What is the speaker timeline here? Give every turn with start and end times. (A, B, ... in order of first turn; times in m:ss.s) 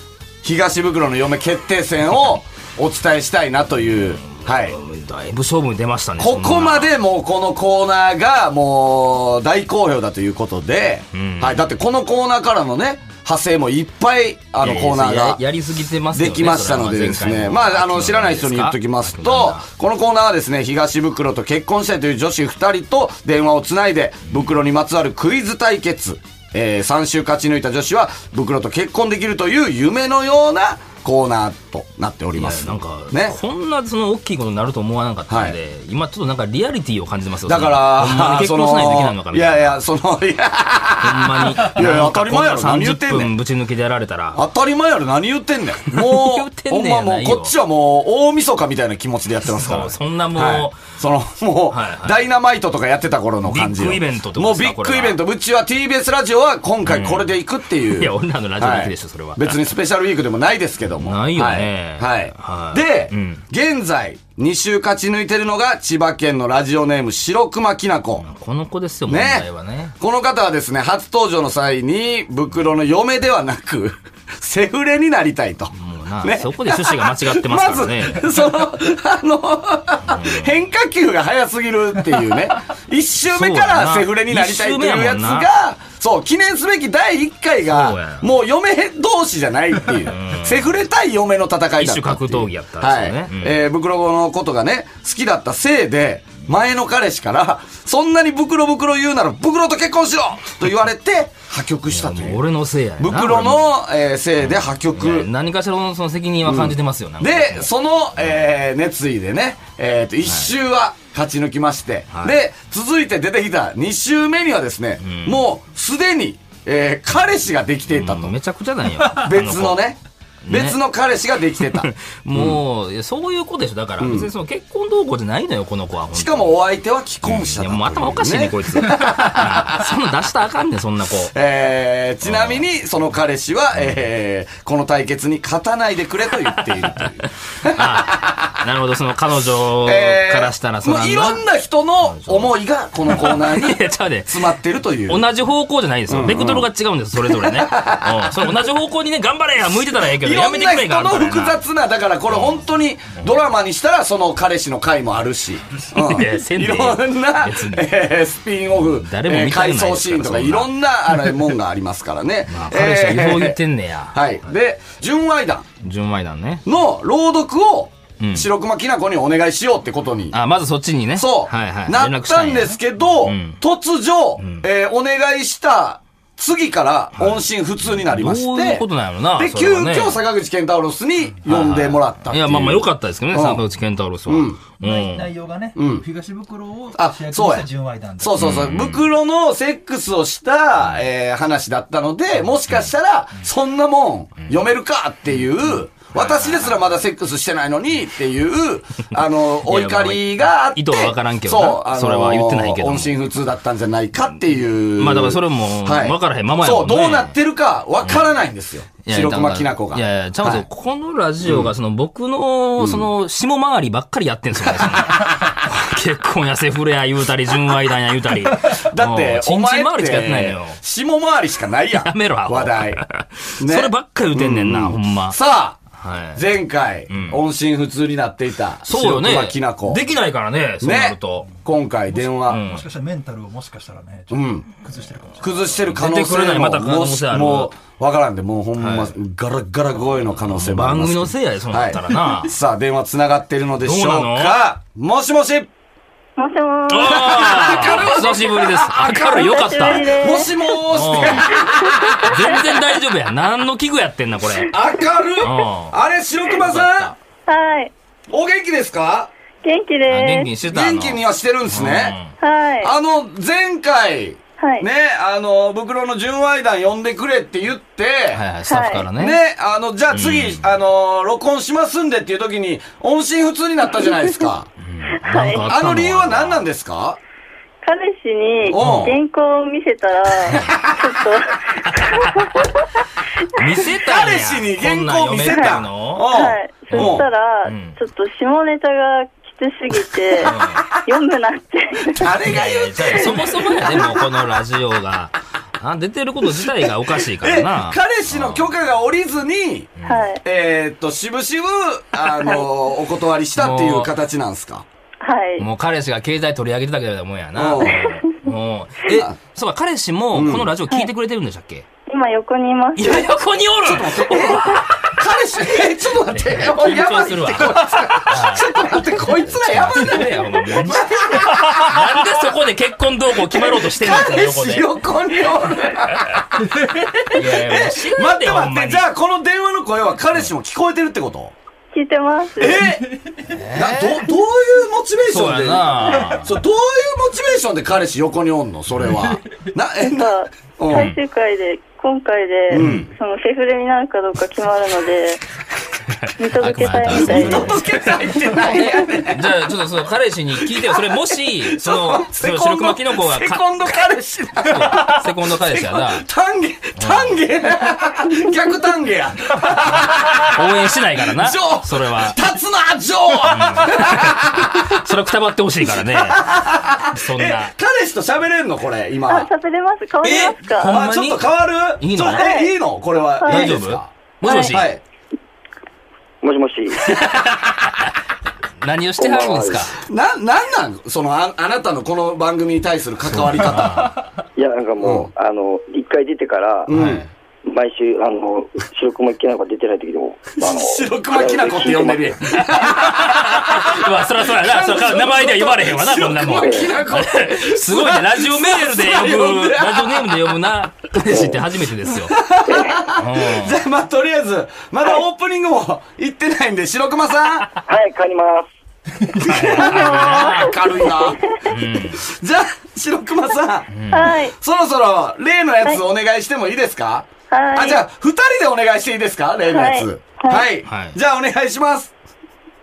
0:00.4-0:04.8 A
0:04.2-0:06.9 B
0:06.2-0:15.4 A
0:11.1-0:11.6 B
0:14.6-0:19.6 B
0:16.1-0:33.4 A
0:32.4-0:39.8 B
0:35.3-0:35.6 A
0:37.4-0:43.3 A
0:41.0-0:44.4 B
0:44.3-1:08.2 A
0:45.9-0:47.5 B
0:49.5-0:50.8 B
0:51.7-0:52.2 B
0:53.4-0:55.2 B
0:56.8-0:57.3 B
0:57.8-0:59.6 B
1:01.0-1:03.4 B
1:08.2-1:09.9 B
1:09.1-1:42.4 A
1:15.8-1:18.4 B
1:20.1-1:20.5 B
1:23.3-1:25.5 B
1:27.6-1:28.3 B
1:30.1-1:30.7 B
1:31.8-1:33.6 B
1:41.9-1:43.7 B
1:43.0-1:45.3 A
1:44.4-1:47.7 B
1:46.4-1:58.4 A
1:50.2-1:50.5 B
1:52.1-1:52.4 B
1:55.0-1:55.4 B
1:57.9-2:00.8 B
1:59.2-2:02.6 A
2:01.7-2:06.5 B
2:04.0-2:04.3 A
2:06.1-2:09.9 A
2:07.2-2:11.3 B
2:11.3-2:18.5 A
2:12.2-2:12.6 B
2:16.5-2:17.0 B
2:17.6-2:21.4 B
2:19.8-2:25.3 A
2:22.0-2:22.5 B
2:23.0-2:24.4 B
2:25.1-2:31.6 B
2:26.1-2:26.7 A
2:27.2-2:28.4 A
2:30.2-2:43.6 A
2:32.3-2:32.6 B
2:35.9-2:38.0 B
2:38.7-2:40.7 B
2:42.5-2:44.2 B
2:44.1-2:45.7 A
2:45.8-2:46.6 B
2:46.6-2:50.4 A
2:48.2-2:48.5 B
2:50.3-2:53.6 B
2:51.2-2:58.8 A
2:54.4-2:54.6 B
2:57.2-3:00.2 B
2:59.4-3:03.6 A
3:01.4-3:05.3 B
3:04.3-3:04.6 A
3:04.8-3:08.4 C
3:05.8-3:06.0 A
3:06.9-3:07.7 A
3:08.2-3:30.6 A
3:08.4-3:09.0 B
3:16.0-3:16.9 B
3:19.6-3:23.2 B
3:24.9-3:27.3 B
3:28.0-3:28.3 B
3:29.0-3:40.8 B
3:31.4-3:31.7 A
3:32.8-3:33.1 A
3:34.7-3:35.5 A
3:38.8-3:43.0 A
3:42.0-3:45.4 B
3:43.6-3:45.8 A
3:45.9-3:46.5 B
3:46.3-3:50.0 A
3:47.1-3:47.4 B
3:48.8-3:51.5 B
3:50.8-3:52.6 A
3:52.1-3:55.6 C
3:52.5-3:52.9 B
3:54.3-3:54.6 A
3:55.4-4:05.7 A
3:56.0-3:57.7 B
3:58.8-3:59.1 B
4:00.4-4:02.5 B
4:03.8-4:04.6 B
4:06.4-4:08.1 D
4:06.9-4:10.3 B
4:07.1-4:12.6 A
4:09.1-4:10.8 D
4:10.9-4:11.6 B
4:11.5-4:12.6 D
4:12.3-4:14.8 B
4:14.7-4:17.1 A
4:15.4-4:16.0 B
4:16.5-4:17.1 B
4:17.5-4:17.9 D
4:18.3-4:19.3 A
4:19.6-4:20.5 D
4:20.1-4:22.3 B
4:20.7-4:22.2 A
4:22.4-4:22.9 D
4:22.8-4:28.4 A
4:24.6-4:24.9 D
4:28.3-4:29.4 B
4:28.7-4:29.0 D
4:29.2-4:34.7 A
4:30.1-4:30.6 B
4:34.8-4:36.6 B
4:35.2-4:35.6 D
4:35.4-4:37.2 A
4:37.8-4:42.7 D
4:38.7-4:39.2 A
4:38.8-4:39.1 B
4:43.6-4:46.3 B
4:43.9-4:47.3 A
4:46.3-4:52.3 D
4:46.9-4:48.0 B
4:50.4-4:50.8 B
4:50.4-4:50.8 A
4:52.1-4:54.2 A
4:52.4-4:58.7 B
4:56.6-4:59.9 A
5:00.0-5:00.3 B
5:00.0-5:00.4 D
5:00.4-5:04.8 A
5:03.6-5:04.1 B
5:05.2-5:05.7 D
5:05.6-5:11.8 B
5:07.6-5:08.0 A
5:09.1-5:09.3 A
5:10.3-5:10.7 A
5:12.1-5:13.3 D
5:12.9-5:15.1 B
5:13.8-5:21.9 A
5:16.3-5:25.0 B
5:23.5-5:31.5 A
5:27.2-5:29.0 B
5:31.9-5:32.8 D
5:32.6-5:33.2 A
5:33.5-5:34.2 B
5:33.7-5:41.1 A
5:35.3-5:36.5 B
5:40.0-5:45.4 D
5:40.9-5:41.2 B
5:42.7-5:43.0 A
5:42.8-5:43.1 B
5:46.3-5:47.9 B
5:46.4-5:47.8 D
5:46.8-5:49.5 A
5:48.6-5:49.0 D
5:48.7-5:54.1 B
5:50.8-6:00.7 A
5:54.6-5:56.2 B
5:57.0-5:57.4 B
6:00.5-6:02.4 B
6:01.3-6:05.0 A
6:03.5-6:06.4 B
6:05.9-6:09.5 A
6:07.1-6:07.7 B
6:09.3-6:11.0 D
6:10.2-6:12.5 B
6:10.2-6:14.1 A
6:12.2-6:12.7 D
6:13.4-6:13.8 D
6:13.4-6:14.9 B
6:14.4-6:14.8 D
6:14.6-6:15.0 A
6:16.4-6:17.0 E
6:17.0-6:18.1 B
6:18.8-6:19.9 B
6:19.2-6:19.8 E
6:19.3-6:19.6 C
6:20.1-6:24.1 A
6:23.4-6:24.2 B
6:24.6-6:26.9 E
6:25.0-6:25.3 A
6:26.8-6:27.2 A
6:26.9-6:27.2 B
6:27.6-6:32.3 E
6:30.6-6:34.0 A
6:31.3-6:32.0 C
6:33.0-6:42.4 B
6:34.5-6:40.5 A
6:42.2-6:47.7 A
6:43.2-6:43.8 B
6:47.9-6:48.7 E
6:49.3-6:53.9 A
6:49.4-6:50.8 B
6:49.5-6:51.4 D
6:51.7-6:52.2 B
6:53.9-6:54.4 B
6:54.1-6:54.5 D
6:54.5-7:02.1 A
6:57.5-6:58.0 D
6:59.7-7:00.6 D
7:00.8-7:01.2 B